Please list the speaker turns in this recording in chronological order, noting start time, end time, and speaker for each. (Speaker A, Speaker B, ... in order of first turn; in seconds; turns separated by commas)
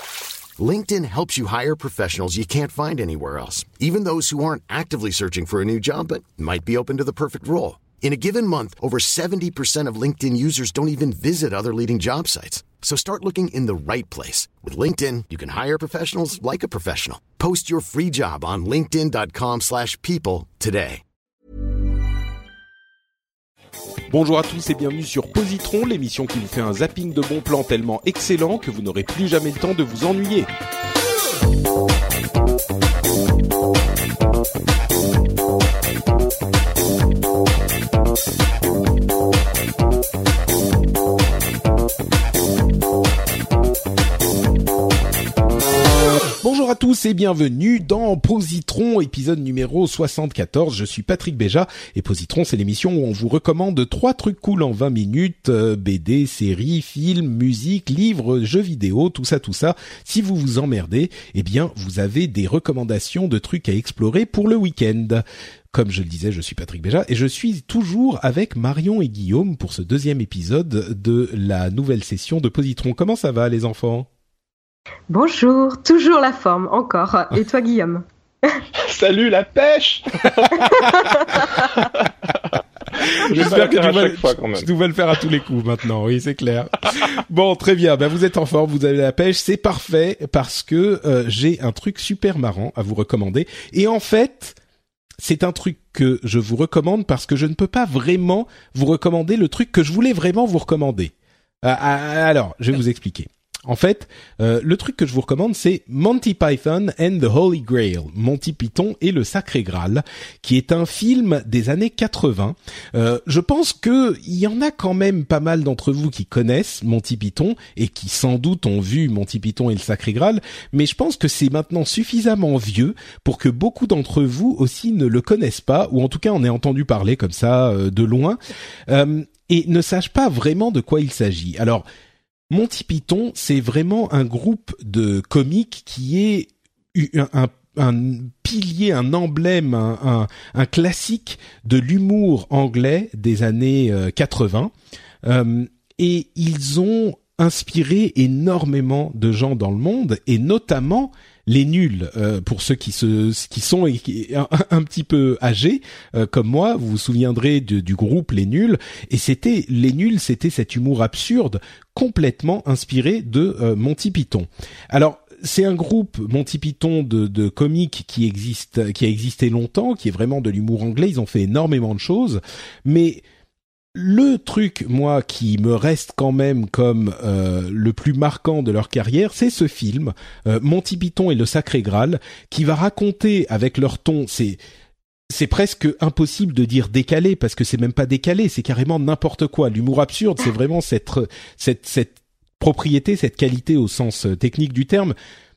Speaker A: 0.6-21.0, Speaker B: 24.1-30.5, Speaker B: 46.4-74.1, Speaker C: 75.1-78.0, Speaker D: 78.8-80.9, Speaker B: 80.6-81.3, Speaker D: 81.7-82.1, Speaker B: 83.0-94.6, Speaker D: 83.2-84.7, Speaker B: 95.2-128.4, Speaker B: 128.9-131.8, Speaker B: 132.5-144.7, Speaker B: 145.2-173.2, Speaker B: 173.9-184.6, Speaker B: 185.3-195.2